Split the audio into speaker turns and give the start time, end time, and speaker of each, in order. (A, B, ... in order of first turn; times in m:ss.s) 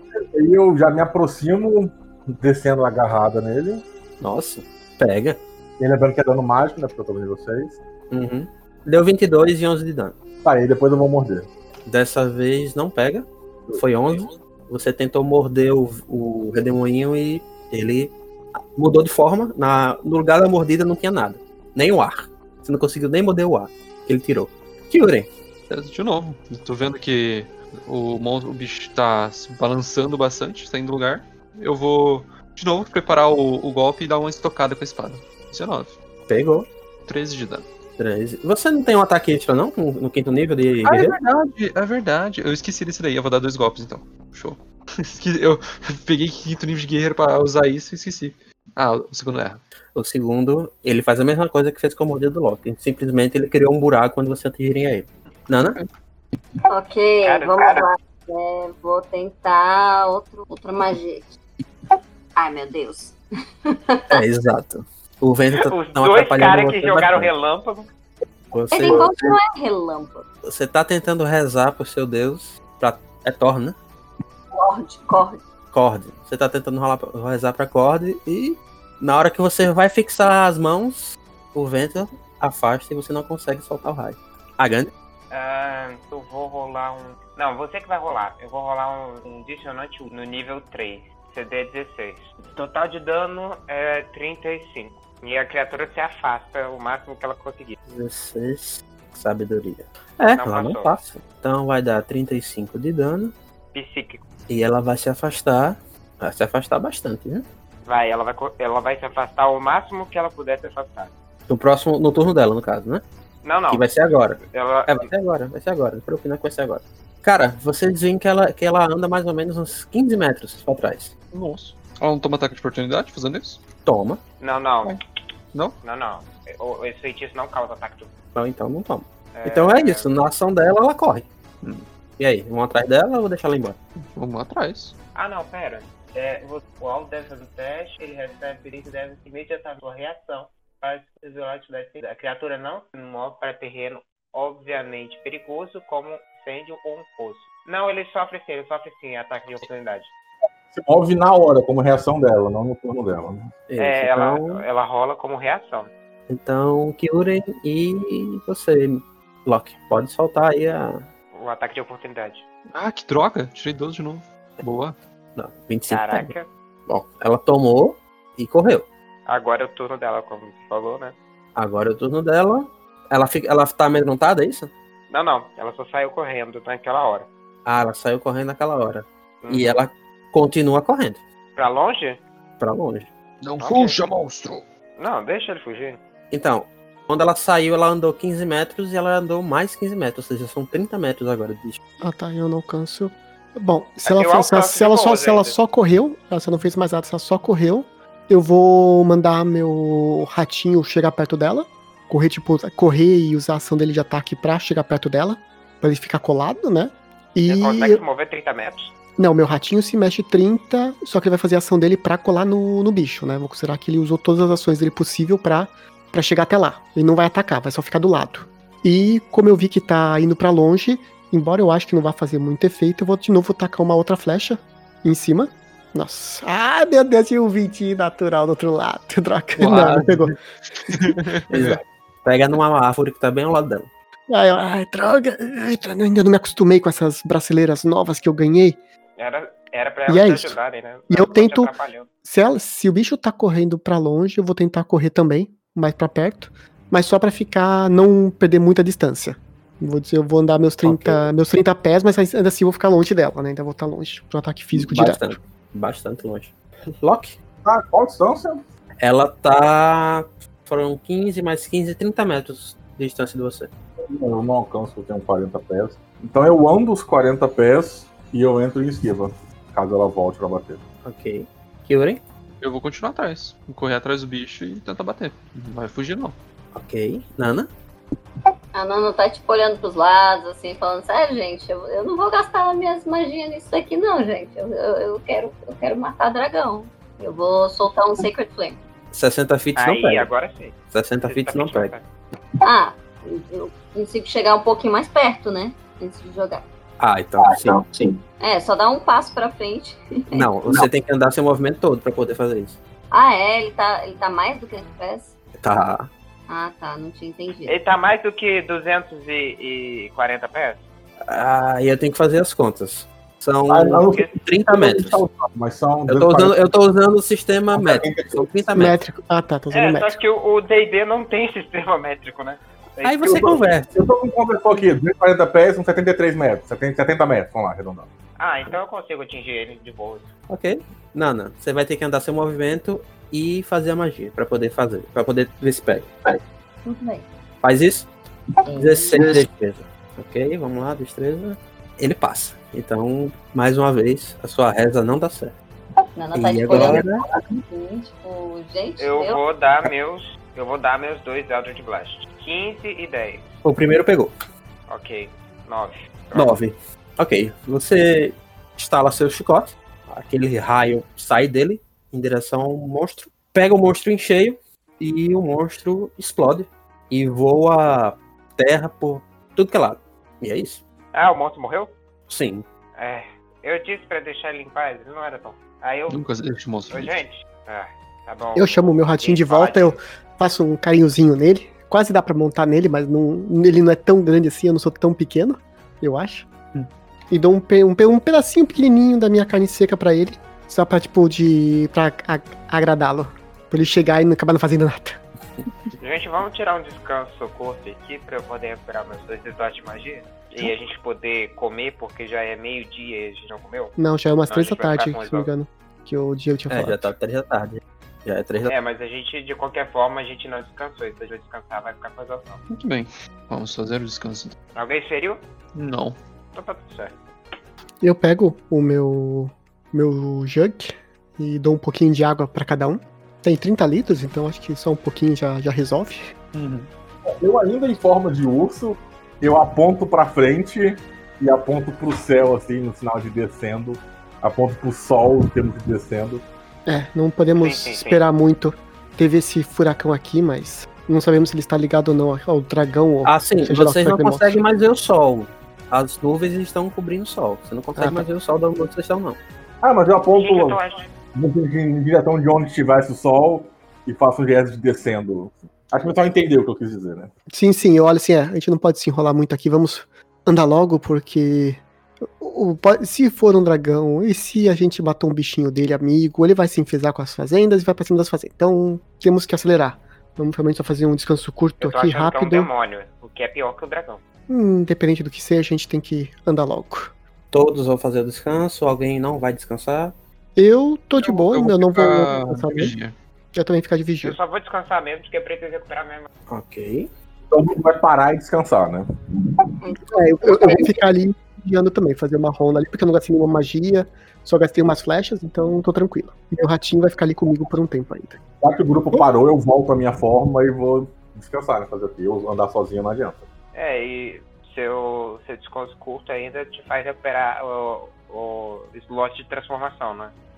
0:00.1-0:03.8 A
0:04.2-0:05.4 B
0:05.8-0:07.8 A
0:08.1-0:10.2 B
0:10.4-0:11.5 A
0:11.8-0:18.1 B
0:18.7-0:25.3 B
0:25.7-0:36.0 C
0:36.3-0:36.7 B
0:37.0-0:37.7 C
0:38.0-0:41.2 B
0:40.8-0:49.6 C
0:49.9-0:55.8 B
0:56.7-1:01.3 D
0:57.2-0:57.8 E
1:02.4-1:03.2 D
1:03.7-1:04.2 D
1:04.1-1:07.3 B
1:05.6-1:07.9 E
1:08.5-1:09.3 B
1:08.7-1:10.3 D
1:10.4-1:13.8 B
1:14.5-1:15.4 D
1:15.7-1:24.9 B
1:25.3-1:37.8 E
1:37.8-1:43.3 B
1:40.3-1:40.9 E
1:43.7-1:44.2 E
1:44.5-1:47.4 B
1:47.8-1:51.1 E
1:51.5-1:53.0 B
1:53.4-1:55.1 E
1:53.7-2:01.1 B
2:01.3-2:03.6 C
2:03.8-2:04.2 B
2:04.4-2:05.0 E
2:05.8-2:08.1 E
2:08.3-2:11.3 B
2:09.3-2:10.1 E
2:12.2-2:13.8 B
2:14.0-2:14.9 C
2:15.1-2:30.1 E
2:30.7-2:33.5 A
2:33.7-2:34.6 B
2:33.8-2:35.9 E
2:36.3-2:41.1 B
2:41.3-2:42.4 E
2:42.7-2:45.0 C
2:45.4-2:46.3 B
2:45.9-2:46.5 E
2:46.9-2:48.9 B
2:49.2-2:51.1 E
2:51.6-2:54.7 B
2:55.1-2:57.3 E
2:57.6-3:01.2 B
2:59.4-2:59.8 E
3:01.6-3:02.2 E
3:02.6-3:03.1 B
3:03.4-3:04.6 C
3:03.6-3:04.0 E
3:05.0-3:06.0 E
3:06.3-3:11.8 B
3:12.0-3:28.0 F
3:14.0-3:15.5 E
3:27.4-3:28.9 E
3:29.2-3:50.3 F
3:49.6-3:50.0 C
3:49.6-3:50.1 B
3:50.7-3:51.8 C
3:50.8-3:51.2 F
3:51.5-3:53.9 B
3:54.3-3:58.8 F
3:59.2-4:02.1 E
4:00.1-4:00.6 F
4:01.1-4:01.7 F
4:02.2-4:15.4 F
4:10.8-4:11.3 B
4:14.7-4:17.4 B
4:17.6-4:18.6 A
4:19.0-4:23.7 B
4:24.1-4:30.8 A
4:31.0-4:32.2 B
4:32.6-4:36.4 C
4:36.7-4:37.7 B
4:38.7-4:48.8 D
4:49.1-4:50.3 B
4:49.8-4:50.7 E
4:50.9-4:51.9 B
4:51.2-4:52.0 E
4:52.6-4:56.6 D
4:57.0-4:57.9 B
4:57.4-4:58.2 A
4:58.4-5:00.5 D
5:00.3-5:02.8 B
5:03.1-5:05.3 D
5:05.6-5:06.1 B
5:06.5-5:07.7 D
5:07.7-5:10.8 E
5:11.2-5:15.2 B
5:13.7-5:16.5 A
5:16.1-5:18.9 B
5:17.7-5:18.5 A
5:18.7-5:20.2 F
5:19.7-5:23.4 E
5:23.0-5:23.9 B
5:23.2-5:28.1 A
5:28.4-5:30.3 E
5:30.5-5:36.4 B
5:36.8-5:37.2 D
5:37.6-5:38.1 B
5:38.6-5:39.4 D
5:38.8-5:45.5 B
5:46.2-5:49.4 D
5:46.3-5:47.2 B
5:49.0-5:53.5 E
5:53.6-5:54.3 B
5:54.9-5:56.6 E
5:56.3-6:10.8 B
6:11.1-6:11.9 E
6:12.3-6:12.6 B
6:13.0-6:16.2 E
6:16.1-6:17.2 C
6:16.9-6:20.0 E
6:18.5-6:26.5 F
6:27.3-6:35.2 F
6:36.0-6:43.9 E
6:44.0-6:47.1 F
6:44.5-6:45.5 E
6:46.7-6:48.7 B
6:48.6-6:52.6 E
6:52.7-6:54.6 C
6:54.8-6:55.4 E
6:55.7-6:56.2 C
6:56.5-6:57.2 E
6:58.0-7:06.3 F
7:06.5-7:06.9 C
7:07.2-7:16.4 A
7:16.8-7:24.6 F
7:17.6-7:18.2 E
7:23.2-7:29.4 B
7:28.0-7:28.2 F
7:29.8-7:30.8 A
7:30.3-7:31.1 E
7:31.3-7:37.3 A
7:37.5-7:52.7 F
7:51.8-7:54.2 E
7:54.5-7:57.1 F
7:57.5-8:00.1 B
8:00.6-8:02.9 F
8:01.2-8:03.2 C
8:03.5-8:04.4 F
8:04.2-8:06.3 E
8:06.5-8:07.1 B
8:07.5-8:09.6 A
8:09.8-8:11.0 D
8:10.1-8:18.4 F
8:18.6-8:23.5 A
8:23.7-8:30.3 E